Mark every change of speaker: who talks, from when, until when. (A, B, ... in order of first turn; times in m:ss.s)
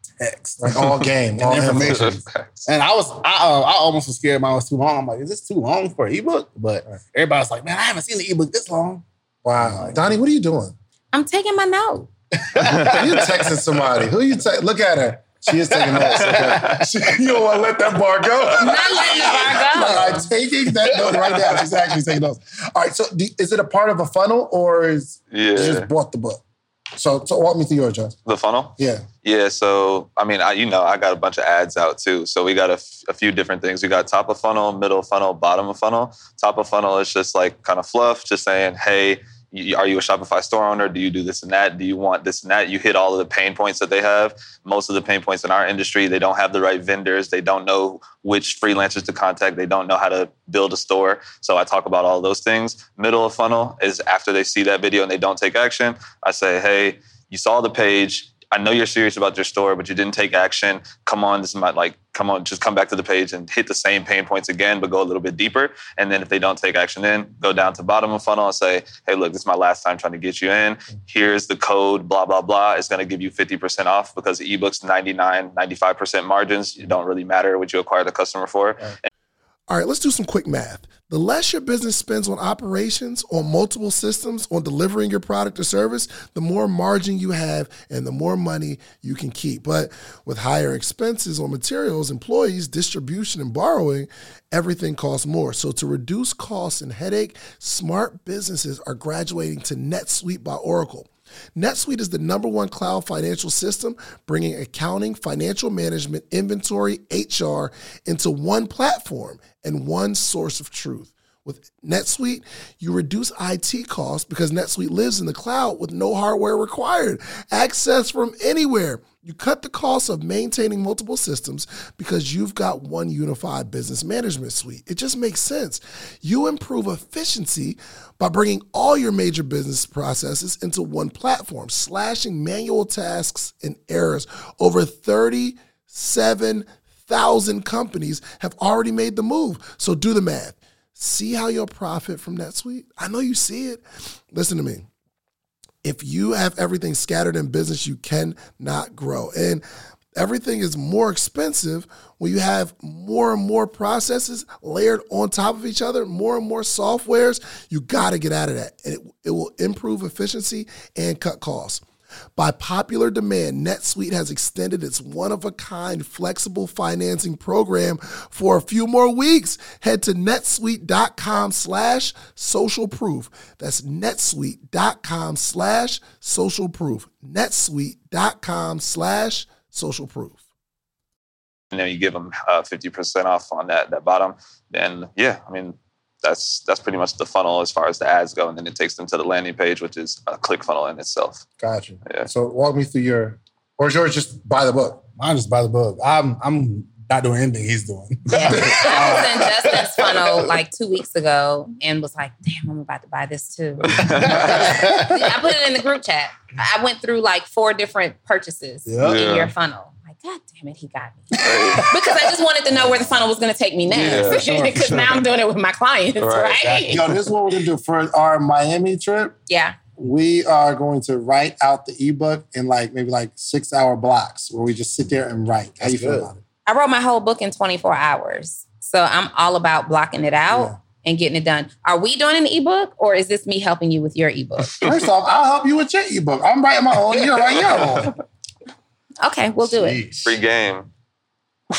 0:00.2-0:10.1 A
0:00.6-0:02.1 B
0:01.7-0:02.7 C
0:09.4-0:10.7 B
0:11.1-0:12.1 D
0:12.4-0:13.9 A
0:12.7-0:12.9 C
0:12.9-0:26.4 B
0:15.6-0:16.8 A
0:16.2-0:16.8 C
0:18.6-0:20.3 D
0:20.7-0:21.7 A
0:25.3-0:25.9 C
0:26.9-0:28.1 B
0:28.2-1:19.1 C
0:28.8-0:29.0 B
1:19.7-2:24.8 E
2:25.8-2:29.6 E
2:30.1-2:41.8 E
2:42.4-3:00.4 E
3:01.7-3:11.4 C
3:11.6-3:15.0 B
3:15.2-3:20.6 A
3:18.3-3:37.1 D
3:23.9-3:24.6 C
3:24.0-3:25.3 A
3:28.8-3:29.2 A
3:29.0-3:29.5 C
3:31.4-3:31.8 C
3:31.7-3:33.1 A
3:33.9-3:35.2 B
3:34.0-3:34.4 C
3:36.2-3:36.6 C
3:36.6-3:37.1 A
3:36.9-3:39.4 B
3:39.5-3:39.8 D
3:40.0-3:46.4 B
3:45.8-3:46.3 A
3:46.6-3:54.8 D
3:54.8-3:58.1 B
3:59.2-4:00.0 D
3:59.6-4:00.4 A
4:00.2-4:00.9 C